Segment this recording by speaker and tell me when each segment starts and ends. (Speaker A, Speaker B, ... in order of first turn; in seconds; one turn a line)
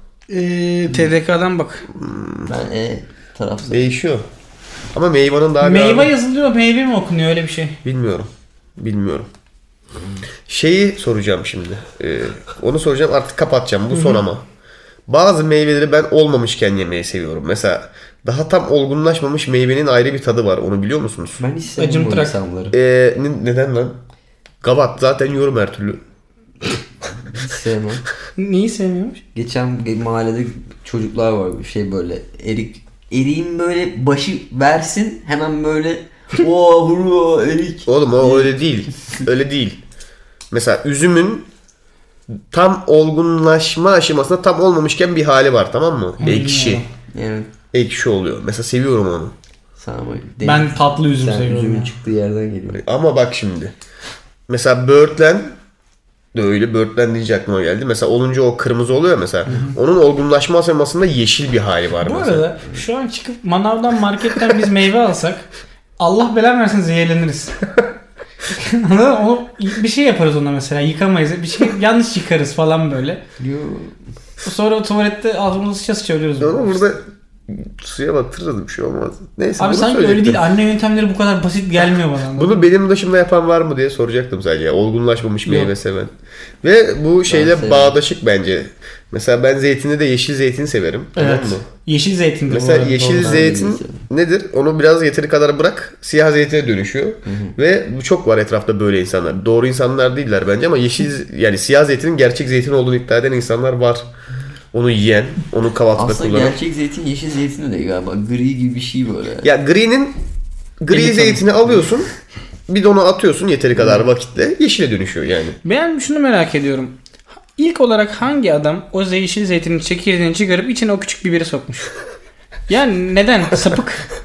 Speaker A: 0.3-1.9
Speaker B: 1.9-2.5
Speaker C: 2.5-4.0
Speaker B: 3.7-4.2
Speaker B: 4.9-6.1
Speaker A: 5.6-7.8
Speaker B: 7.8-9.3
Speaker B: 10.5-14.4
Speaker A: 13.9-14.2
Speaker B: 15.1-21.4
Speaker C: 21.4-22.8
Speaker A: 21.8-22.4
Speaker B: 22.7-24.0
Speaker B: 24.6-26.0
Speaker C: 27.2-28.0
Speaker A: 28.4-29.2
Speaker C: 29.3-38.6
Speaker B: 37.9-39.8
Speaker B: 40.5-41.5
Speaker B: 42.5-46.8
Speaker A: 46.2-46.9
Speaker C: 47.1-47.5
Speaker B: 47.7-49.3
Speaker C: 49.8-52.8
Speaker A: 50.4-51.9
Speaker B: 52.7-53.7
Speaker B: 54.5-55.5
Speaker B: 56.4-62.5
Speaker A: 59.5-59.7
Speaker A: 62.0-65.5
Speaker A: 66.0-67.6
Speaker A: 68.5-73.2
Speaker C: 73.4-74.0
Speaker A: 74.4-76.9
Speaker B: 76.4-80.4
Speaker A: 79.6-82.7
Speaker B: 82.4-91.6
Speaker A: 85.5-85.7
Speaker C: 87.3-88.0
Speaker A: 91.2-93.5
Speaker B: 92.5-104.1
Speaker C: 93.1-94.1
Speaker C: 97.2-97.6
Speaker B: 104.7-106.6
Speaker C: 105.9-109.5
Speaker B: 109.4-110.2
Speaker B: 110.8-112.1
Speaker A: 110.9-111.4
Speaker B: 112.7-115.6
Speaker A: 115.6-117.0
Speaker A: 117.6-121.9
Speaker A: 122.7-124.1